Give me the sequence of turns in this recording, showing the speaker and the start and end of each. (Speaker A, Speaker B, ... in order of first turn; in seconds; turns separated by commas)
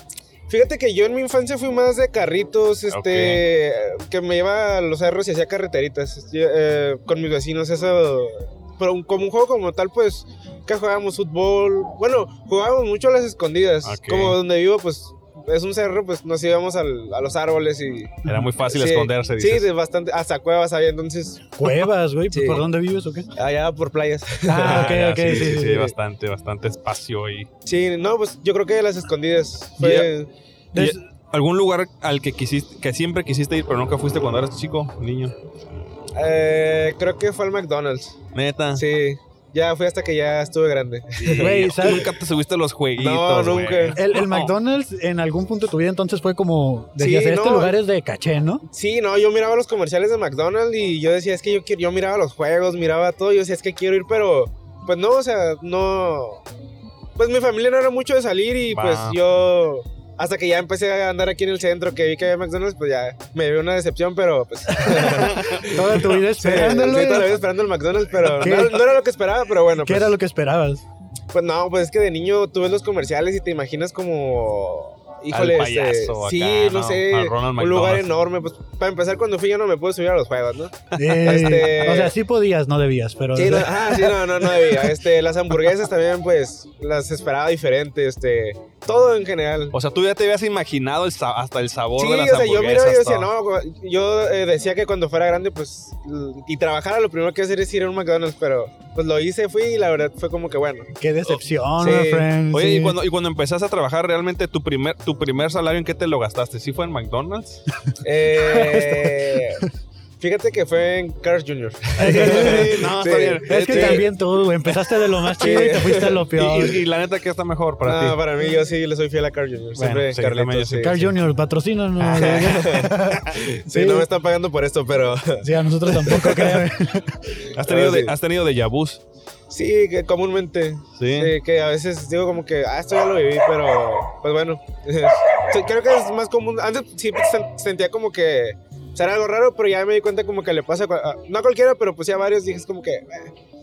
Speaker A: 0.5-21.7, Speaker B: 2.9-3.5, Speaker B: 13.8-14.4, Speaker B: 18.3-19.7, Speaker C: 21.6-23.3, Speaker A: 22.3-22.7, Speaker A: 23.3-25.9, Speaker C: 24.5-25.8, Speaker B: 24.6-27.5, Speaker A: 27.6-30.3, Speaker B: 29.8-30.1, Speaker C: 30.7-31.0, Speaker B: 30.7-35.4, Speaker A: 36.1-38.2, Speaker B: 38.3-38.8, Speaker A: 38.7-42.1, Speaker B: 41.2-44.5, Speaker C: 41.4-42.0, Speaker A: 43.0-44.0, Speaker C: 44.0-48.6, Speaker A: 47.0-47.8, Speaker A: 48.7-56.4, Speaker A: 57.2-70.2, Speaker B: 58.7-59.2, Speaker C: 64.7-67.3, Speaker B: 65.1-65.8, Speaker C: 68.2-68.8, Speaker C: 69.8-70.8, Speaker A: 71.3-82.2, Speaker B: 75.3-78.1, Speaker C: 81.0-84.2, Speaker B: 81.0-81.4, Speaker A: 83.3-89.7, Speaker B: 89.7-93.3, Speaker A: 92.0-100.9, Speaker C: 101.0-103.0, Speaker A: 101.8-102.3, Speaker B: 102.5-107.6, Speaker A: 108.0-109.6, Speaker C: 108.5-109.2, Speaker A: 110.2-114.1, Speaker B: 112.0-114.1, Speaker C: 112.0-112.7, Speaker C: 113.5-116.8, Speaker A: 115.4-116.3, Speaker B: 116.4-118.2, Speaker A: 117.8-121.0, Speaker B: 119.8-121.1, Speaker C: 120.8-124.1, Speaker B: 122.0-122.8, Speaker A: 122.2-126.7, Speaker C: 125.4-127.4, Speaker A: 127.5-128.1, Speaker B: 127.5-129.0, Speaker A: 129.5-143.3, Speaker B: 131.0-131.3